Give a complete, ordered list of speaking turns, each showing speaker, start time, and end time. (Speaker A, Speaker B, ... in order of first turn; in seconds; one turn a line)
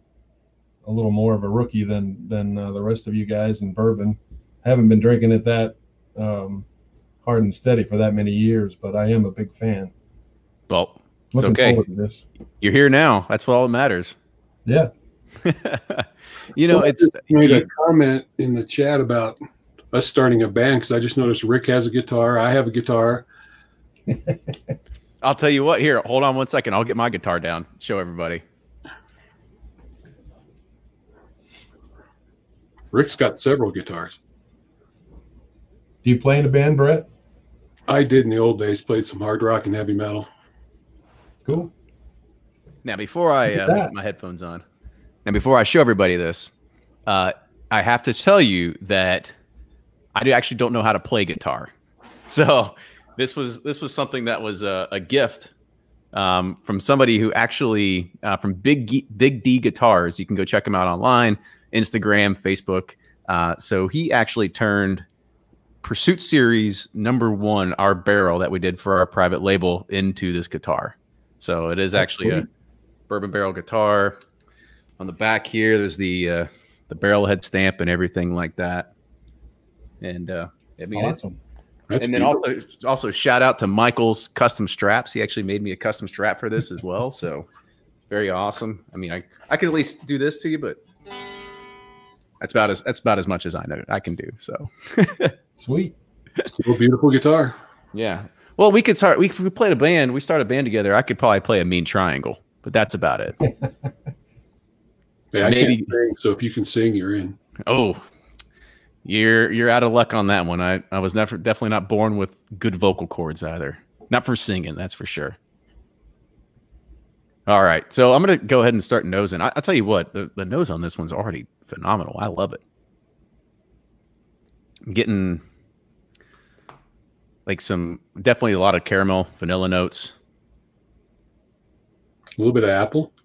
Speaker A: 0.8-6.7
Speaker A: 7.2-9.9
Speaker B: 10.7-11.8
Speaker A: 11.3-12.2
Speaker B: 12.6-14.2
Speaker A: 14.7-14.9
Speaker B: 15.4-17.7
Speaker C: 16.7-19.4
Speaker C: 19.9-23.2
Speaker A: 24.1-24.7
Speaker B: 25.2-28.4
Speaker C: 32.9-34.2
Speaker A: 36.0-37.1
Speaker C: 37.9-40.3
Speaker A: 41.4-41.7
Speaker B: 42.8-44.6
Speaker A: 43.5-43.9
Speaker B: 45.2-46.5
Speaker B: 47.1-49.3
Speaker B: 50.1-51.7
Speaker B: 52.2-55.5
Speaker B: 56.1-65.0
Speaker B: 65.8-72.5
Speaker A: 72.0-72.4
Speaker B: 73.1-74.2
Speaker B: 75.0-78.9
Speaker B: 80.0-81.2
Speaker A: 80.9-81.4
Speaker C: 81.9-82.4
Speaker B: 82.0-87.5
Speaker B: 88.1-90.8
Speaker B: 92.4-95.3
Speaker A: 95.6-95.9
Speaker C: 96.5-97.5
Speaker B: 97.9-103.3
Speaker A: 103.4-103.9
Speaker C: 105.3-107.4
Speaker B: 105.4-105.9
Speaker B: 107.7-108.0
Speaker B: 109.0-115.4
Speaker B: 117.5-122.6
Speaker B: 124.8-125.4
Speaker B: 127.5-130.1
Speaker C: 132.4-133.1